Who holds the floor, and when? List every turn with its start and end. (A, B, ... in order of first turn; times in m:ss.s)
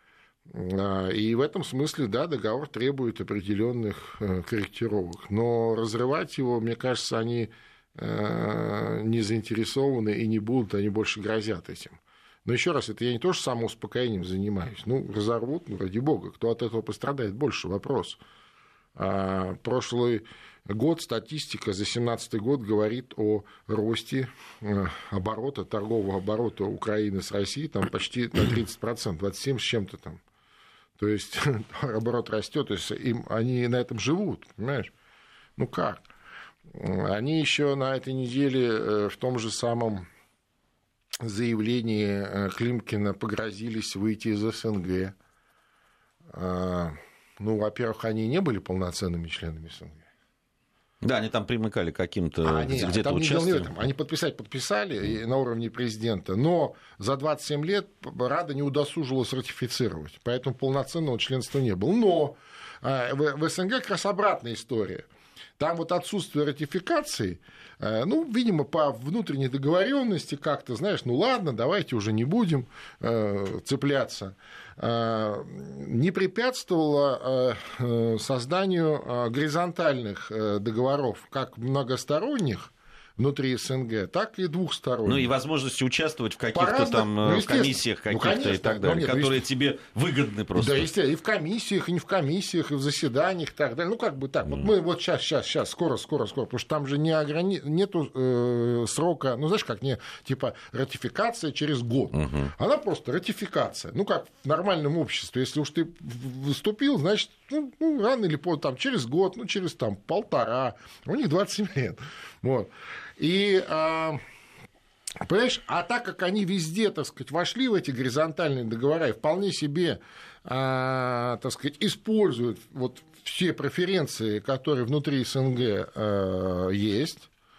0:00.5-0:18.2 A
0:19.0-0:30.2 A
0:31.0-0:34.9 A
0:35.6-0:36.0 A
0:36.7-0:40.1 A
0:41.2-0:45.2 A
0:46.3-0:50.1 A
0:51.0-0:53.7 B
0:52.4-1:05.1 A
1:05.6-1:25.3 A
1:25.0-1:30.9 B
1:26.5-1:29.4 A
1:30.6-1:54.2 A
1:42.1-1:42.5 B
1:55.2-2:07.3 A